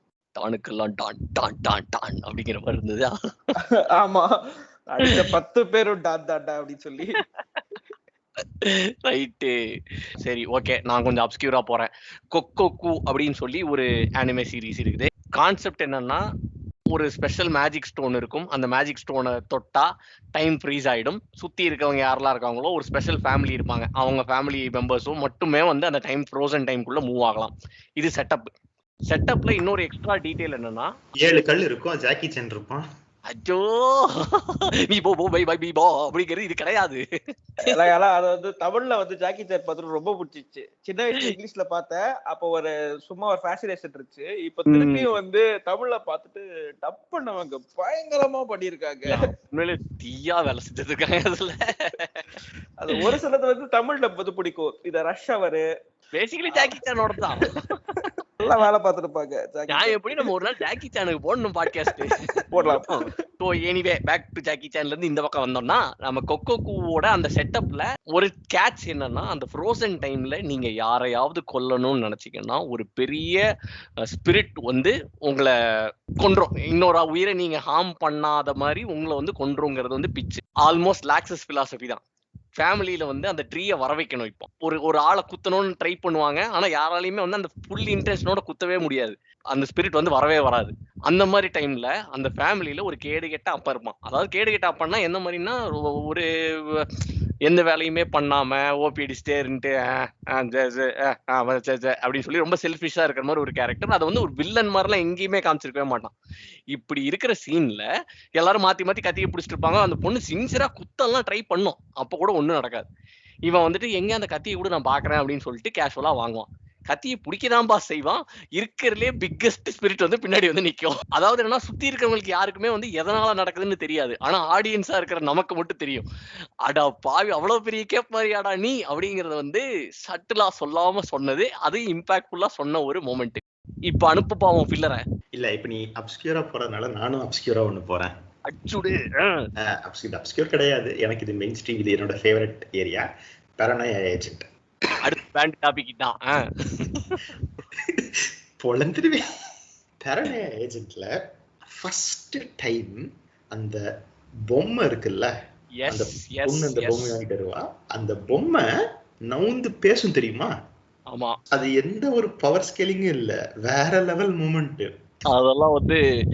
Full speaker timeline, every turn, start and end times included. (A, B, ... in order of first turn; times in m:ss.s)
0:00.4-0:03.6 A
0:03.6-0:07.2 B
0:05.0-0:05.3 A
0:07.2-0:07.6 A
0:08.6-0:09.6 A
0:10.2-0:16.2 A
0:16.9-0:28.5 A
0:29.1-0:30.9 A
0:31.2-0:32.8 C
0:33.3-0:37.0 A
0:37.7-0:49.3 B
0:44.7-0:45.1 A
0:49.1-0:52.4 A
0:52.8-0:55.6 B
0:56.1-0:57.9 A
0:57.4-1:00.3 B
0:59.7-1:13.4 A
1:02.5-1:03.1 B
1:14.1-1:15.5 A
1:16.2-1:22.0 A
1:22.6-1:36.9 A
1:37.4-1:46.1 A
1:46.7-1:52.9 A
1:53.4-2:06.1 A
2:06.7-2:15.0 A
2:15.4-2:18.1 C
2:18.5-2:19.5 A
2:19.6-2:23.0 C
2:23.6-2:24.5 C
2:25.0-2:27.2 A
2:27.7-2:29.2 C
2:30.0-2:31.1 C
2:31.7-2:33.8 C
2:34.5-2:35.3 C
2:35.8-2:37.2 A
2:35.9-2:38.7 C
2:39.3-2:40.5 C
2:41.5-2:44.9 C
2:45.3-2:46.0 A